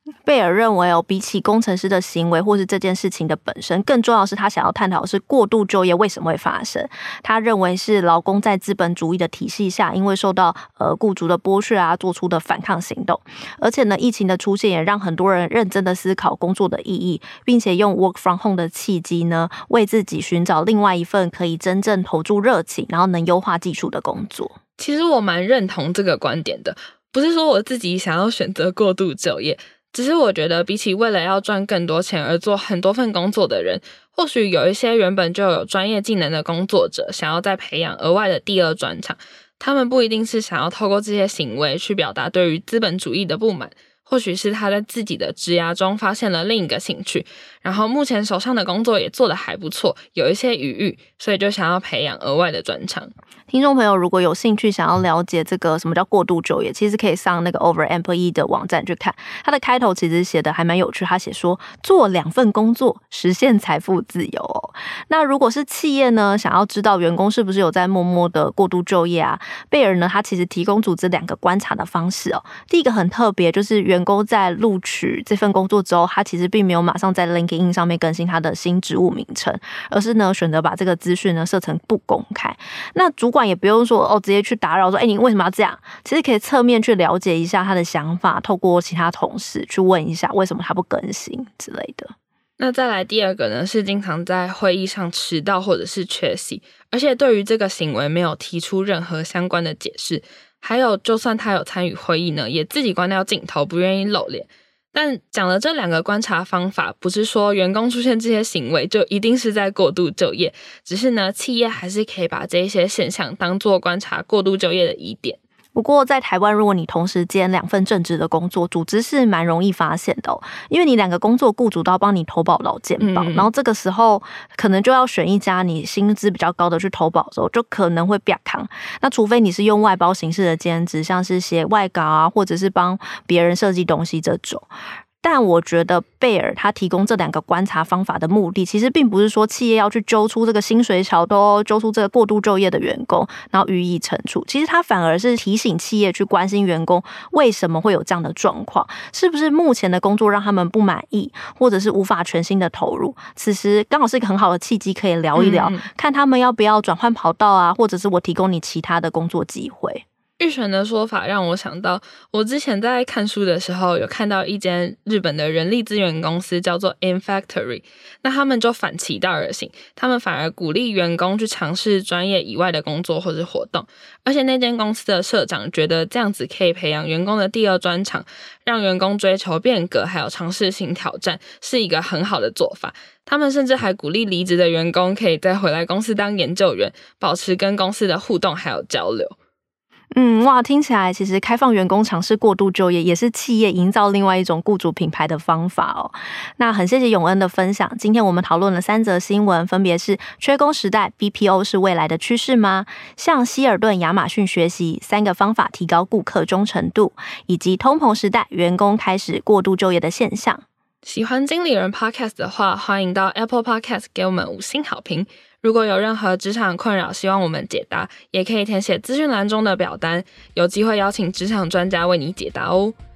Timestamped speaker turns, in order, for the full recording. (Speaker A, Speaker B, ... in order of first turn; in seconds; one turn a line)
Speaker A: 0.2-24.6
Speaker B: 24.8-53.1
Speaker A: 53.5-92.1
Speaker B: 92.6-115.4
Speaker A: 115.8-134.7
Speaker B: 123.0-123.5
Speaker A: 135.2-160.0
Speaker B: 155.4-155.8
Speaker B: 160.4-189.3
Speaker A: 190.1-210.6
Speaker B: 211.1-222.9